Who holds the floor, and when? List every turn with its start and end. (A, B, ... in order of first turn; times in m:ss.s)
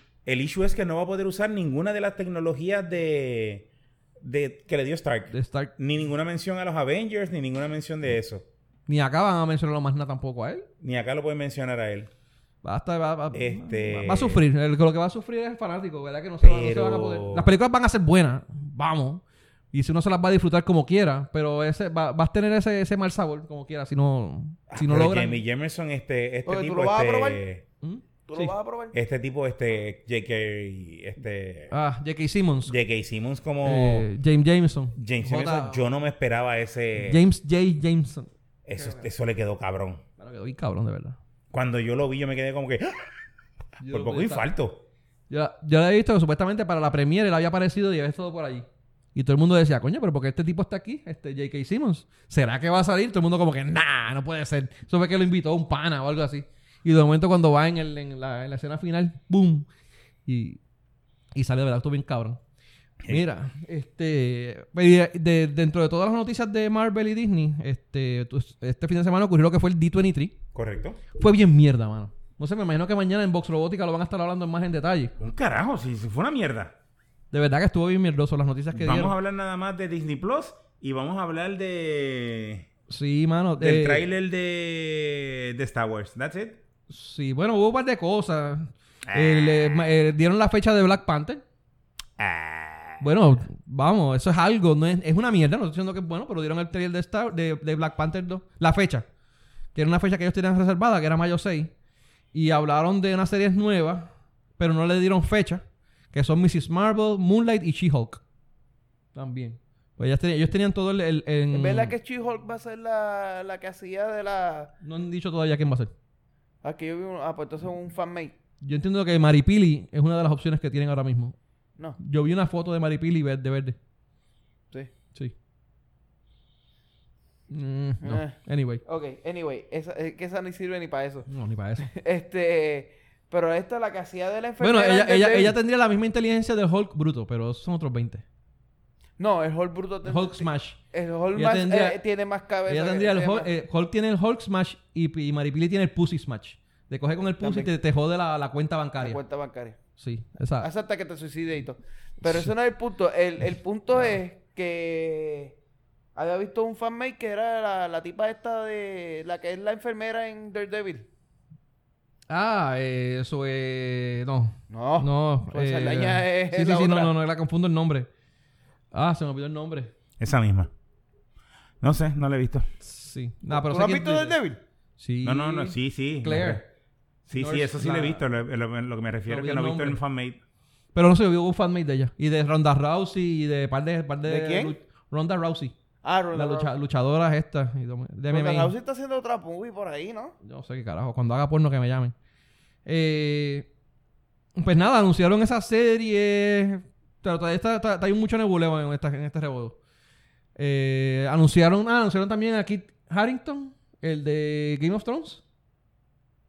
0:00.2-0:03.7 A
0:04.2-0:08.4 A
0:05.3-0:05.7 B
0:08.9-0:10.7 B
0:10.8-0:12.1 A
0:12.6-0:25.4 B
0:13.3-0:14.4 A
0:16.4-0:17.5 A
0:24.7-0:27.6 A
0:26.5-0:27.4 C
0:27.8-0:28.5 B
0:28.3-0:29.0 C
0:28.9-0:31.7 A
0:31.7-0:32.8 B
0:32.7-0:34.1 A
0:33.6-0:35.8 B
0:35.0-0:37.2 A
0:37.0-0:39.0 B
0:38.7-0:40.0 A
0:40.2-0:41.2 B
0:41.5-0:43.2 A
0:43.8-0:44.5 B
0:43.9-0:44.8 A
0:45.3-0:59.7 B
1:00.3-1:00.6 B
1:01.3-1:02.4 B
1:03.1-1:10.4 B
1:10.5-1:11.0 A
1:11.2-1:15.1 B
1:15.2-1:16.7 A
1:17.3-1:19.2 B
1:18.7-1:22.7 A
1:22.9-1:24.1 B
1:23.6-1:26.6 A
1:26.9-1:31.4 B
1:29.1-1:29.9 A
1:32.2-1:33.1 A
1:33.0-1:39.1 B
1:39.8-1:41.7 B
1:42.3-1:48.2 B
1:49.2-1:52.0 B
1:51.5-1:54.7 C
1:54.8-1:55.9 B
1:56.6-1:58.3 C
1:58.6-2:01.4 B
2:02.0-2:03.8 B
2:07.5-2:08.8 B
2:08.0-2:11.3 C
2:11.3-2:11.9 B
2:11.8-2:15.6 C
2:14.6-2:18.2 B
2:19.2-2:23.5 C
2:20.0-2:20.8 B
2:21.3-2:22.0 B
2:22.7-2:29.2 B
2:27.4-2:27.7 C
2:29.0-2:29.8 C
2:30.0-2:30.7 B
2:30.6-2:35.6 C
2:36.2-2:41.1 C
2:42.3-2:48.1 B
2:44.7-2:47.2 C
2:48.9-2:49.9 B
2:50.2-2:50.7 A
2:51.8-2:52.7 A
2:52.8-2:54.4 B
2:53.5-2:54.6 C
2:55.0-2:56.6 B
2:55.2-2:56.6 A
2:57.3-3:00.4 A
2:57.3-2:58.2 B
2:59.3-3:00.0 B
3:01.0-3:05.8 B
3:04.2-3:04.8 C
3:06.0-3:06.7 C
3:06.3-3:08.7 B
3:08.3-3:10.4 C
3:10.4-3:12.2 B
3:12.9-3:13.7 B
3:14.6-3:19.8 B
3:20.6-3:25.4 B